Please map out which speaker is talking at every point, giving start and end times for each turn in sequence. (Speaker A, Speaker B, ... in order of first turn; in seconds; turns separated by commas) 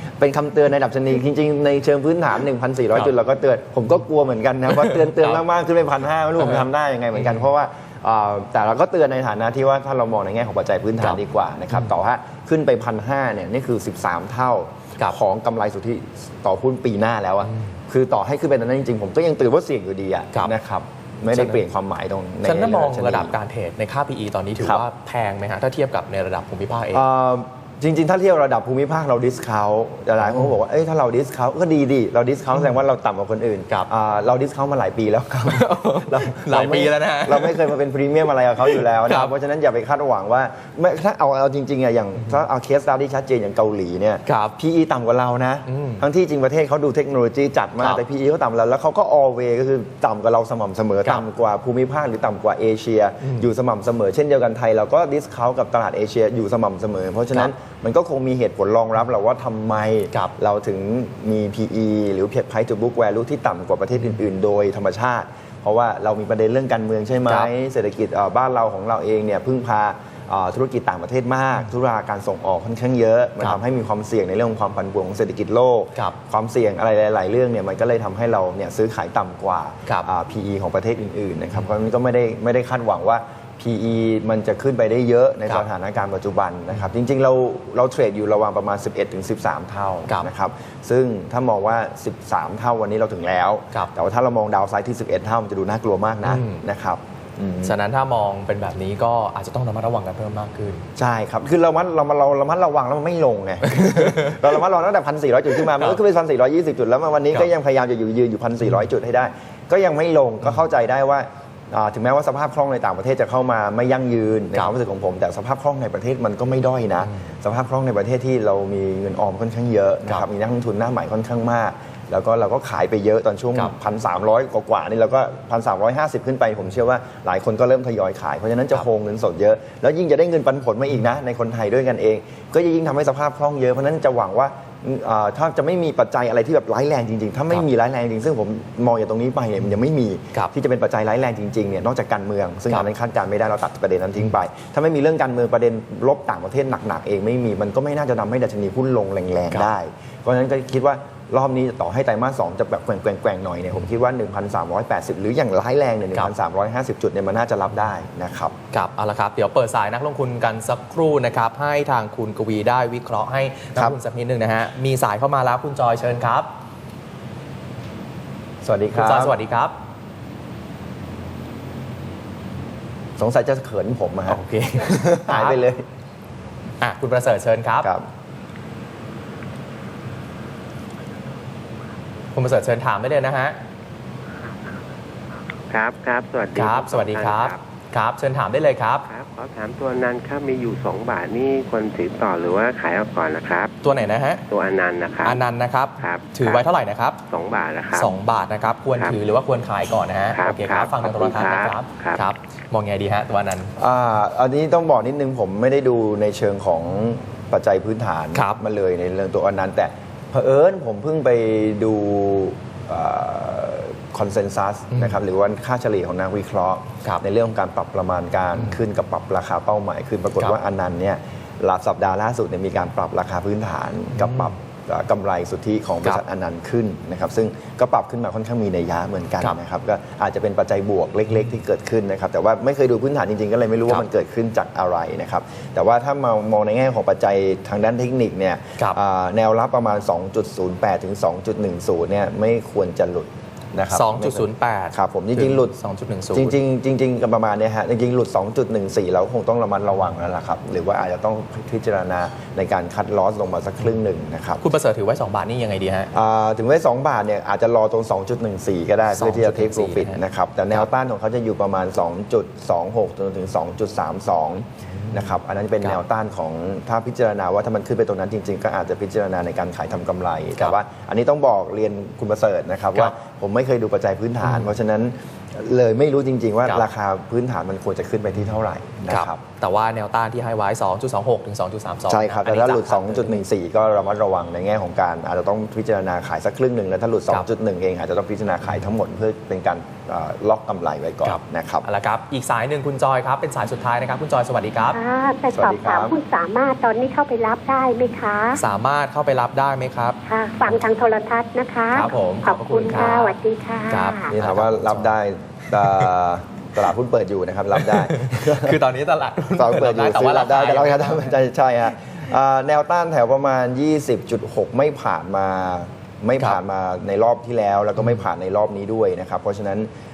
Speaker A: 0.2-23.4, Speaker B: 4.8-5.4, Speaker B: 21.3-21.6, Speaker B: 22.4-27.0, Speaker A: 26.9-97.8, Speaker B: 35.5-37.7, Speaker B: 38.6-39.3, Speaker B: 44.3-44.6, Speaker B: 45.7-46.0, Speaker B: 96.2-96.6, Speaker B: 97.6-100.9, Speaker A: 101.0-158.6, Speaker B: 103.8-104.4, Speaker B: 158.7-166.5, Speaker A: 168.6-169.4, Speaker B: 168.9-169.8, Speaker A: 173.2-175.8, Speaker B: 174.3-175.6, Speaker B: 176.8-177.9, Speaker B: 182.3-183.6, Speaker C: 185.7-187.6, Speaker B: 186.5-189.1, Speaker C: 189.1-193.7, Speaker B: 193.8-194.4, Speaker C: 194.5-195.4, Speaker B: 195.2-197.2, Speaker C: 196.0-196.7, Speaker C: 197.3-198.2, Speaker B: 197.9-203.7, Speaker C: 200.3-202.2, Speaker A: 203.8-245.8, Speaker B: 208.3-208.6, Speaker B: 243.9-246.6, Speaker A: 246.3-254.6, Speaker B: 254.6-256.1, Speaker A: 256.1-279.4, Speaker B: 259.1-260.2, Speaker B: 279.1-283.4, Speaker A: 282.1-291.9, Speaker B: 291.2-295.0, Speaker D: 294.9-298.6, Speaker A: 295.5-296.2, Speaker B: 298.6-300.2, Speaker D: 300.3-304.3, Speaker B: 301.9-303.4, Speaker B: 303.9-305.1, Speaker A: 304.3-308.8, Speaker B: 305.8-306.1, Speaker B: 307.8-311.4, Speaker A: 309.6-319.9